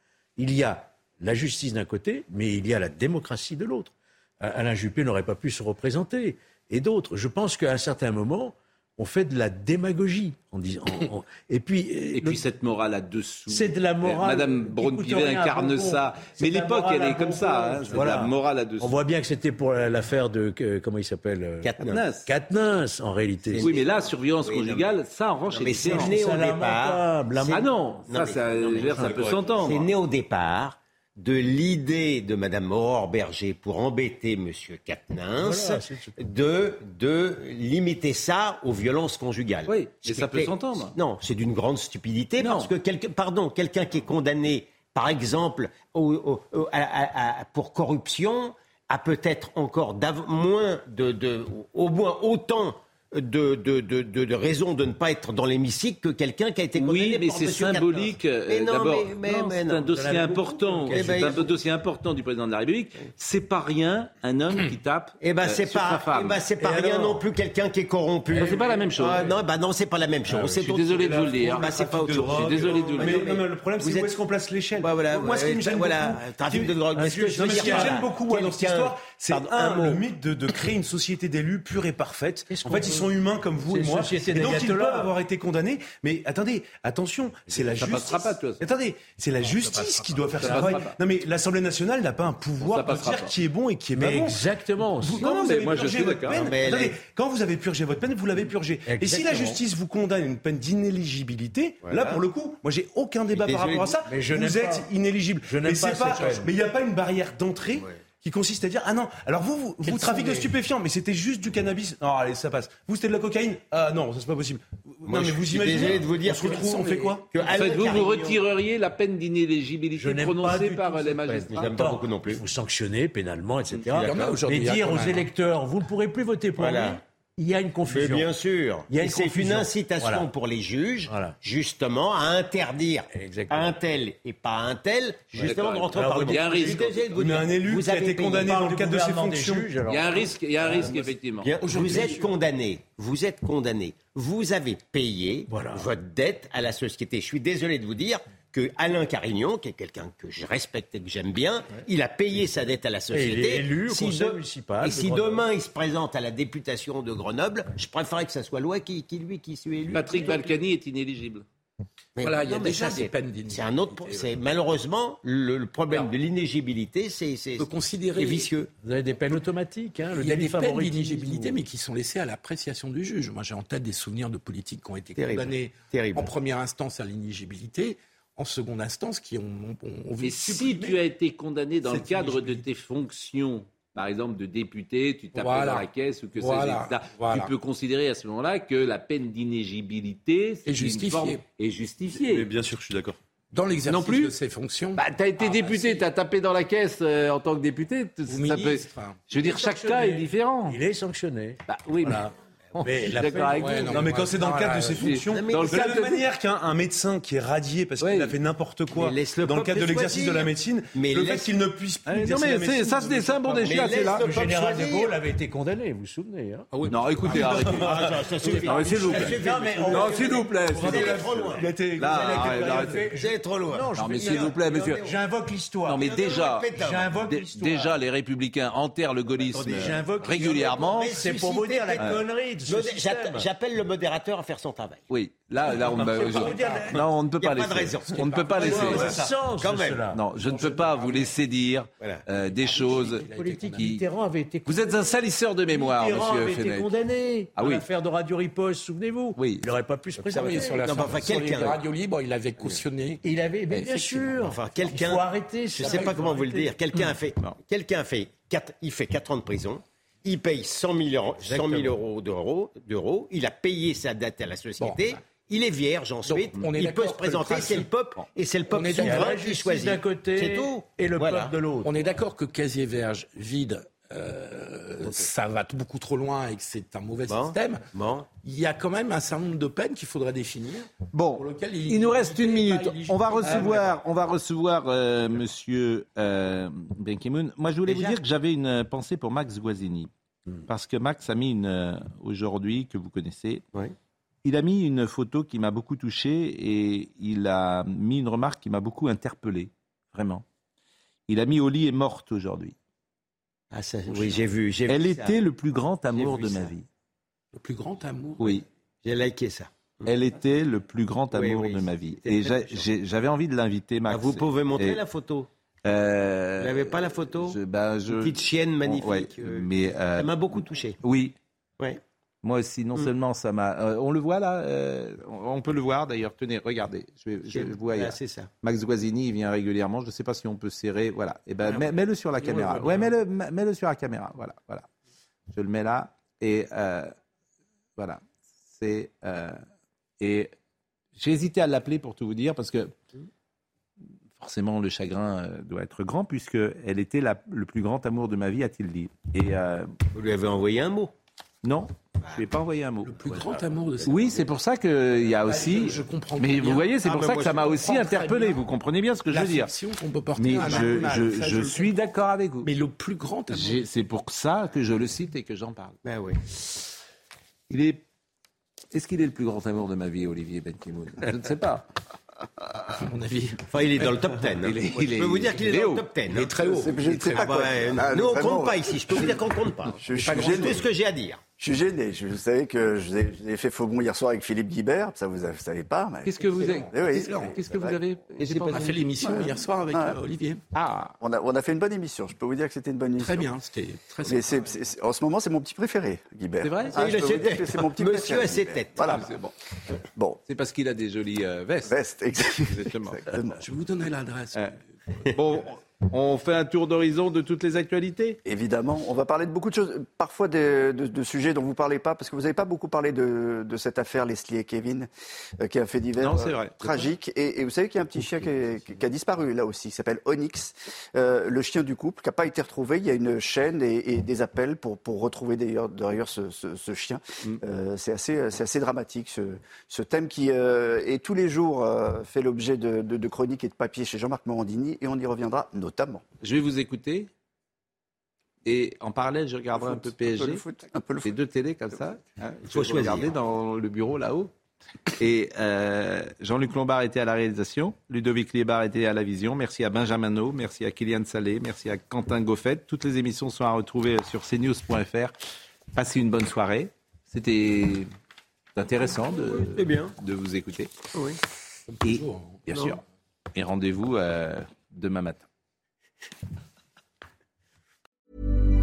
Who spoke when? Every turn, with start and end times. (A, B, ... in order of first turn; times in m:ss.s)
0:00.4-0:12.4 A
0:12.1-0:19.0 B
0:13.5-0:21.7 A
0:21.6-0:22.0 C
0:21.8-0:22.3 B
0:22.2-0:23.7 A
0:23.5-0:24.9 C
0:23.6-0:26.2 B
0:25.5-0:59.9 C
0:25.8-0:27.6 A
0:27.5-0:29.9 B
0:35.4-0:36.1 A
0:39.7-0:40.9 B
0:42.4-0:42.7 B
0:56.7-1:06.4 B
0:59.9-1:01.5 A
1:00.9-1:01.4 C
1:05.2-1:14.1 C
1:06.6-1:07.2 A
1:08.3-1:09.3 B
1:10.3-1:34.4 D
1:10.4-1:13.2 B
1:14.8-1:20.0 C
1:16.9-1:18.0 A
1:22.5-1:23.1 A
1:23.6-1:25.1 A
1:27.8-1:28.6 B
1:29.7-1:30.7 A
1:30.4-1:31.0 B
1:32.6-1:33.3 B
1:33.9-1:35.3 A
1:35.0-1:57.2 D
1:35.0-1:36.5 B
1:36.3-1:37.0 C
1:38.8-1:39.6 A
1:43.3-1:44.0 C
1:44.0-1:44.9 A
1:45.4-1:46.5 A
1:50.0-1:50.4 A
1:55.0-1:58.3 C
1:56.2-1:57.2 E
1:57.4-2:01.5 B
1:57.5-1:58.4 A
1:59.9-2:08.3 A
2:01.5-2:02.4 C
2:03.7-2:04.3 C
2:03.9-2:05.3 E
2:06.6-2:07.0 C
2:07.8-2:18.6 C
2:08.9-2:10.3 A
2:11.0-2:11.4 A
2:13.1-2:13.8 A
2:15.3-2:21.1 A
2:15.4-2:17.2 B
2:17.2-2:19.8 D
2:19.8-2:21.5 B
2:20.8-2:40.4 C
2:21.6-2:22.2 E
2:25.5-2:25.9 A
2:33.1-2:35.5 A
2:39.9-2:41.4 B
2:42.2-2:48.7 C
2:42.2-2:44.2 E
2:47.6-2:48.5 E
2:48.8-2:51.6 A
2:50.1-3:01.0 E
2:55.2-2:56.3 C
3:00.2-3:12.5 B
3:01.8-3:02.6 E
3:05.3-3:07.5 E
3:10.6-3:11.4 E
3:12.1-3:13.2 D
3:13.5-3:15.0 E
3:13.8-3:14.3 B
3:14.9-3:20.8 B
3:15.4-3:16.0 A
3:18.3-3:19.2 E
3:19.3-3:24.2 A
3:21.7-3:24.0 B
3:23.4-3:25.2 E
3:23.9-3:33.7 D
3:24.9-3:26.2 B
3:25.3-3:25.9 C
3:28.0-3:28.4 B
3:28.9-3:31.5 C
3:32.1-3:34.5 B
3:33.6-3:35.1 C
3:33.8-3:36.7 A
3:36.7-3:37.3 E
3:36.9-3:41.2 B
3:37.3-3:38.0 D
3:37.3-3:41.6 C
3:37.4-3:46.0 A
3:40.6-3:43.0 D
3:42.0-3:43.0 B
3:42.6-3:45.2 C
3:43.9-3:45.0 B
3:45.8-3:51.2 B
3:46.0-3:47.2 C
3:46.7-3:47.9 A
3:49.5-3:53.5 A
3:49.8-3:55.0 C
3:55.1-3:59.1 B
3:55.7-4:00.1 C
3:55.9-3:57.0 A
3:58.1-3:58.6 E
3:58.5-4:01.3 A
4:00.1-4:04.0 B
4:02.7-4:03.8 E
4:02.7-4:05.2 A
4:04.6-4:06.9 B
4:05.7-4:10.8 A
4:07.6-4:07.8 B
4:09.4-4:09.7 B
4:10.2-4:14.5 E
4:10.4-4:11.8 C
4:13.2-4:16.7 A
4:14.4-4:31.5 C
4:15.8-4:16.1 E
4:21.4-4:22.0 A
4:24.8-4:25.2 E
4:26.2-4:27.9 E
4:28.7-4:29.3 E
4:28.9-4:32.1 A
4:31.8-4:44.0 E
4:37.3-4:38.3 C
4:41.1-4:50.1 B
4:47.8-4:48.2 C
4:50.7-4:53.6 B
4:54.4-5:00.4 B
5:01.3-5:02.7 B
5:03.7-5:05.4 C
5:04.9-5:06.8 B
5:06.1-5:06.7 C
5:07.5-5:08.6 E
5:08.4-5:08.6 B
5:09.0-5:10.1 C
5:10.0-5:15.0 B
5:11.3-5:12.9 C
5:14.1-5:15.5 C
5:15.8-5:21.3 B
5:16.6-5:17.6 C
5:18.1-5:21.0 C
5:22.4-5:34.8 B
5:27.5-5:28.5 C
5:32.4-5:33.1 E
5:35.5-5:37.1 B
5:38.0-5:39.6 B
5:40.2-5:40.5 B
5:41.2-5:43.0 B
5:44.4-5:49.9 B
5:50.1-5:51.1 C
5:51.6-5:53.3 B
5:53.0-5:54.4 E
5:54.0-5:59.7 B
5:55.4-5:58.7 E
5:57.0-5:57.6 C
5:59.3-6:02.1 E
6:00.4-6:02.7 B
6:02.6-6:03.8 E
6:03.5-6:06.0 B
6:06.0-6:06.4 C
6:07.7-6:08.0 B
6:08.9-6:11.8 B
6:12.9-6:13.6 E
6:13.7-6:21.4 C
6:14.0-6:16.0 B
6:16.3-6:18.0 E
6:16.8-6:19.4 F
6:20.0-6:20.9 F
6:20.2-6:20.8 E
6:21.6-6:28.0 F
6:26.2-6:28.9 B
6:26.4-6:27.6 E
6:28.4-6:30.6 E
6:28.5-6:29.0 C
6:29.1-6:30.2 F
6:31.2-6:33.5 F
6:33.2-6:34.6 E
6:34.2-6:39.4 F
6:36.6-6:37.0 B
6:36.9-6:39.1 C
6:39.0-6:39.5 B
6:40.4-6:43.3 B
6:41.9-6:43.6 F
6:43.6-6:44.7 E
6:44.5-6:48.4 B
6:48.4-6:55.1 F
6:55.6-7:16.2 F
6:56.2-6:57.1 B
6:58.2-6:58.5 B
7:16.4-7:17.3 B
7:18.6-7:24.5 B
7:19.7-7:21.4 F
7:22.7-7:23.3 C
7:25.2-7:35.3 B
7:35.9-7:38.1 B
7:38.7-7:40.9 B
7:39.2-7:40.1 C
7:41.9-7:42.9 E
7:42.0-7:43.0 B
7:43.5-7:45.4 B